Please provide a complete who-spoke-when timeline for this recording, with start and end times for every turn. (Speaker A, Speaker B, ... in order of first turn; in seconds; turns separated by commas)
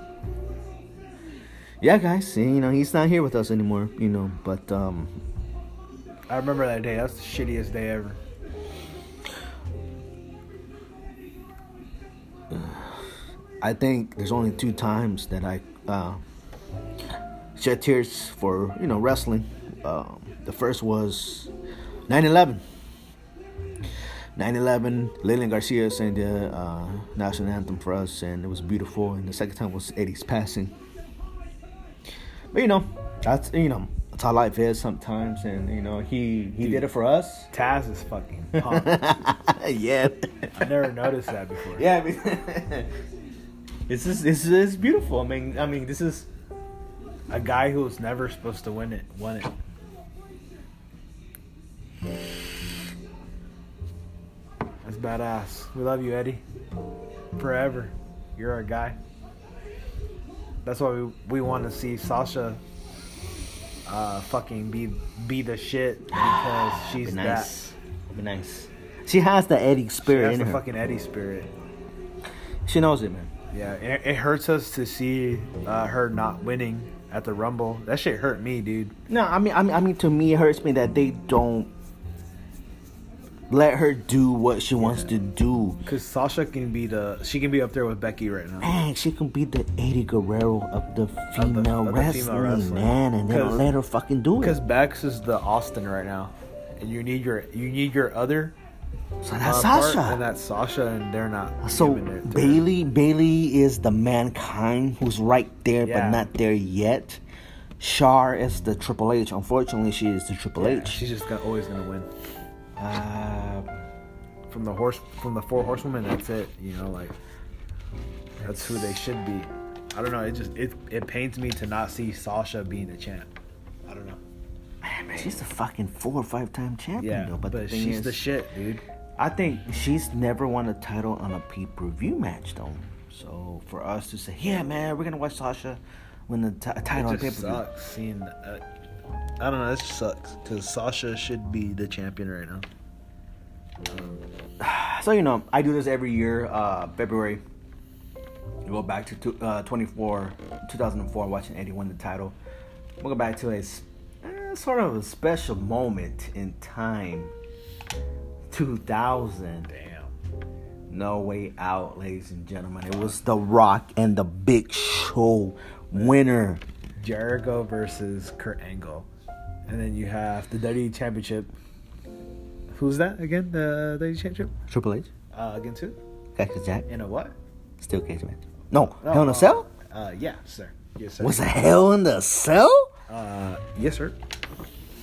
Speaker A: 1.8-5.1, Speaker B: 6.3-8.2, Speaker A: 12.5-13.0, Speaker A: 13.6-16.2, Speaker A: 17.6-21.5, Speaker A: 22.1-22.6, Speaker A: 24.4-30.7, Speaker A: 32.5-37.5, Speaker B: 36.6-36.9, Speaker B: 37.5-39.0, Speaker A: 38.5-40.7, Speaker B: 40.5-41.9, Speaker A: 41.7-42.9, Speaker A: 43.9-46.3, Speaker B: 47.3-49.5, Speaker B: 54.8-56.4, Speaker B: 57.4-59.0, Speaker B: 60.6-62.6, Speaker B: 63.9-67.5, Speaker A: 66.1-70.6, Speaker B: 70.0-71.5, Speaker A: 72.6-73.3, Speaker B: 73.5-78.9, Speaker A: 79.1-81.7, Speaker A: 83.5-85.8, Speaker B: 84.8-85.1, Speaker B: 85.8-88.7, Speaker A: 88.6-94.6, Speaker B: 91.4-93.7, Speaker B: 94.4-98.5, Speaker A: 99.2-100.2, Speaker B: 99.4-102.7, Speaker A: 101.6-107.2, Speaker B: 105.8-106.3, Speaker A: 107.8-111.0, Speaker B: 110.6-112.1, Speaker A: 112.8-113.7, Speaker B: 114.5-117.1, Speaker B: 118.4-123.3, Speaker B: 123.9-124.2, Speaker A: 124.8-128.2, Speaker B: 127.0-128.8, Speaker A: 129.2-137.6, Speaker B: 136.9-138.6, Speaker B: 139.4-142.7, Speaker B: 143.9-144.2, Speaker A: 144.6-147.4, Speaker A: 148.7-152.3, Speaker A: 153.0-157.3, Speaker A: 158.5-159.7, Speaker B: 159.7-160.1, Speaker A: 160.9-166.6, Speaker B: 167.0-169.1, Speaker B: 169.7-171.5, Speaker B: 172.7-174.5, Speaker A: 174.7-175.1, Speaker B: 175.3-176.0, Speaker A: 176.3-176.9, Speaker B: 176.9-177.3, Speaker A: 177.8-179.7, Speaker B: 178.9-181.5, Speaker A: 181.2-182.9, Speaker B: 183.1-184.2